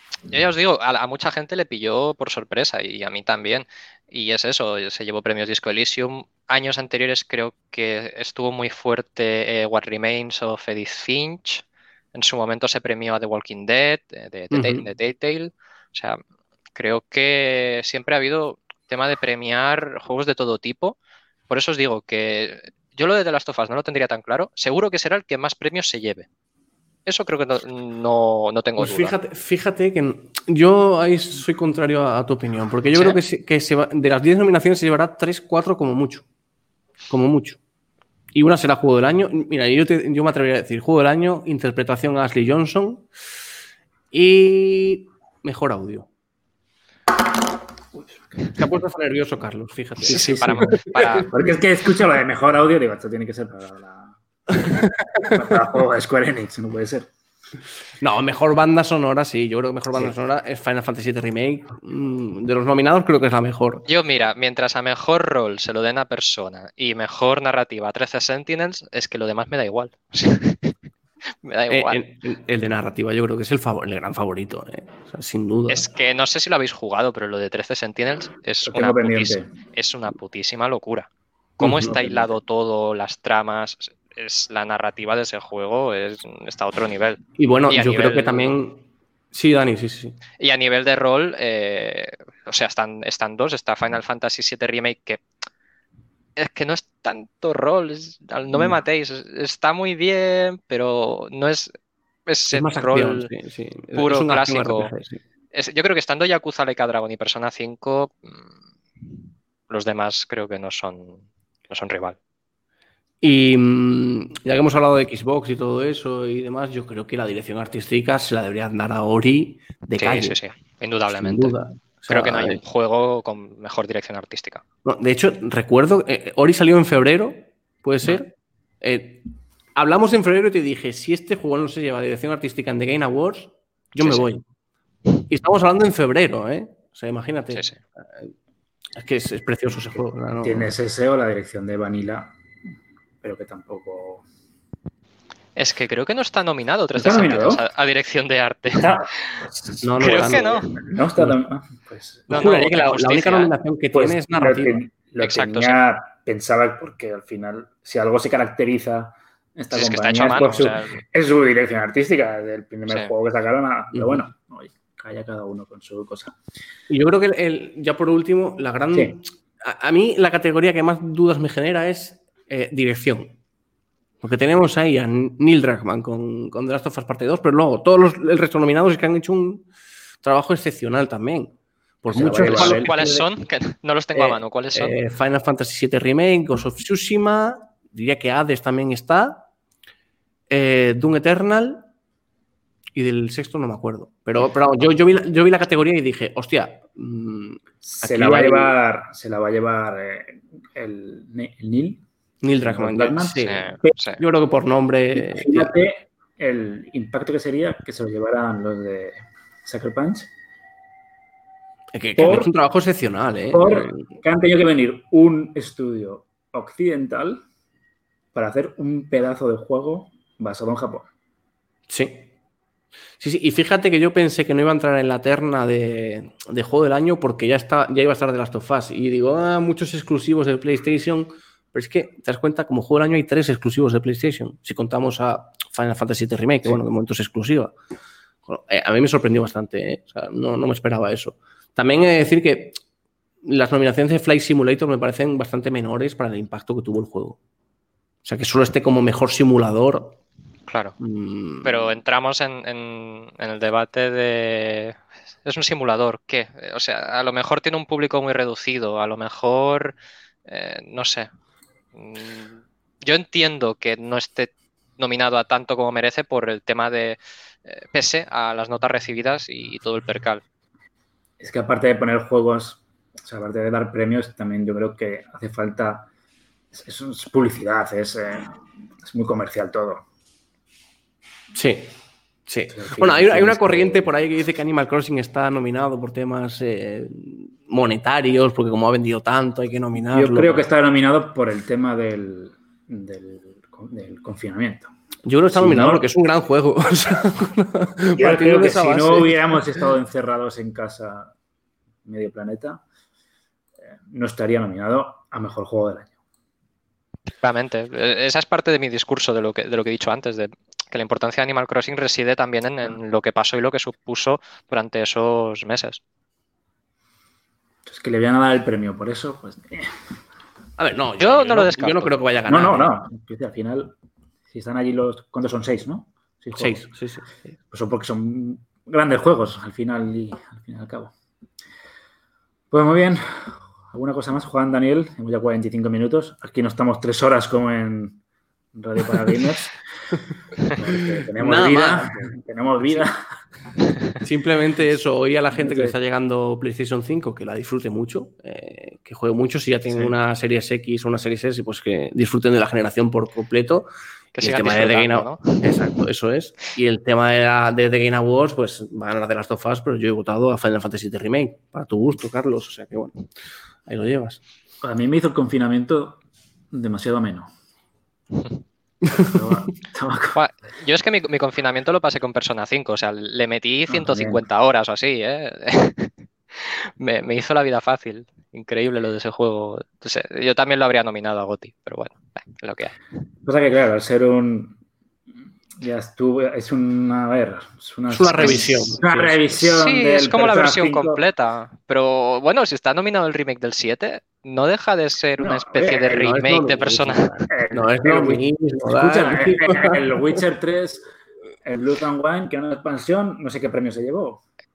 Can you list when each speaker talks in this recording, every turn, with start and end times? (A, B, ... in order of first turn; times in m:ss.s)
0:00.3-0:16.2 A
0:14.5-0:14.9 B
0:16.8-0:21.0 A
0:21.5-0:26.3 A
0:27.1-0:29.2 A
0:28.8-0:36.3 B
0:32.9-0:33.2 A
0:37.1-0:37.6 B
0:38.3-0:43.1 B
0:44.1-0:46.1 B
0:47.9-0:48.5 C
0:48.5-0:51.2 B
0:50.1-0:51.3 A
0:51.3-0:54.7 C
0:54.6-0:55.4 B
0:55.3-0:57.1 C
0:58.0-1:03.8 B
1:03.9-1:10.7 A
1:11.4-1:12.0 A
1:11.7-1:15.9 B
1:15.7-1:28.5 A
1:18.6-1:19.5 C
1:21.6-1:22.0 B
1:21.8-1:22.3 C
1:27.4-1:30.2 B
1:30.4-1:35.2 A
1:36.4-1:41.7 A
1:38.5-1:38.8 B
1:42.3-1:43.3 A
1:42.5-1:45.2 B
1:44.0-1:44.9 A
1:45.5-1:48.5 A
1:49.7-1:52.2 A
1:53.2-2:00.4 B
2:00.0-2:01.6 A
2:01.1-2:02.6 B
2:02.1-2:04.6 A
2:04.8-2:09.2 B
2:09.8-2:14.4 B
2:14.0-2:14.3 A
2:15.3-2:18.3 B
2:17.5-2:17.8 A
2:19.0-2:20.7 B
2:20.4-2:22.3 C
2:23.2-2:24.2 C
2:25.6-2:29.4 A
2:27.0-2:27.7 C
2:28.7-2:29.1 C
2:29.8-2:30.6 B
2:30.0-2:32.5 C
2:30.0-2:30.7 A
2:32.3-2:33.5 A
2:32.3-2:34.8 B
2:33.9-2:46.4 C
2:35.2-2:35.8 A
2:39.7-2:41.0 A
2:43.9-2:44.2 B
2:46.9-2:53.4 B
2:54.2-2:59.7 B
3:00.2-3:03.3 B
3:02.1-3:02.9 C
3:02.4-3:05.0 A
3:04.2-3:09.5 B
3:10.5-3:11.9 B
3:13.0-3:18.8 B
3:17.8-3:22.0 C
3:22.4-3:25.8 B
3:22.6-3:23.9 C
3:23.4-3:24.2 A
3:25.2-3:30.3 C
3:31.9-3:34.1 B
3:32.2-3:32.5 C
3:33.5-3:37.4 C
3:38.3-3:41.1 C
3:41.9-3:42.3 B
3:43.2-3:57.8 B
3:58.5-4:02.8 B
4:03.4-4:07.4 B
4:08.2-4:10.2 B
4:10.7-4:11.0 A
4:11.0-4:11.9 B
4:11.6-4:20.0 A
4:20.5-4:21.3 A
4:22.0-4:30.4 A
4:31.4-4:36.1 C
4:36.7-4:40.0 C
4:41.6-4:41.9 B
4:42.5-4:50.7 B
4:42.7-4:44.1 C
4:50.0-4:54.9 C
4:55.2-4:59.8 B
4:55.5-4:56.1 C
4:58.2-5:01.3 C
5:02.0-5:02.8 C
5:04.0-5:06.1 C
5:07.4-5:16.0 A
5:17.8-5:20.0 C
5:20.8-5:22.9 B
5:21.2-5:22.2 A
5:22.5-5:24.0 C
5:24.5-5:26.9 C
5:26.6-5:27.5 B
5:27.7-5:31.1 C
5:32.7-5:38.2 C
5:38.7-5:39.8 C
5:40.7-5:43.2 C
5:40.8-5:42.3 B
5:44.2-5:53.9 B
5:45.5-5:46.0 C
5:54.4-5:55.7 A
5:54.4-6:03.2 B
6:03.9-6:04.4 B
6:04.8-6:07.5 C
6:09.1-6:09.4 B
6:09.2-6:10.4 C
6:10.4-6:23.0 A
6:13.9-6:14.4 C
6:23.4-6:24.8 C
6:25.8-6:31.2 C
6:28.1-6:29.4 B
6:28.4-6:28.7 A
6:29.6-6:37.5 A
6:35.4-6:36.2 C
6:35.8-6:40.3 B
6:37.5-6:41.1 C
6:41.6-6:44.4 C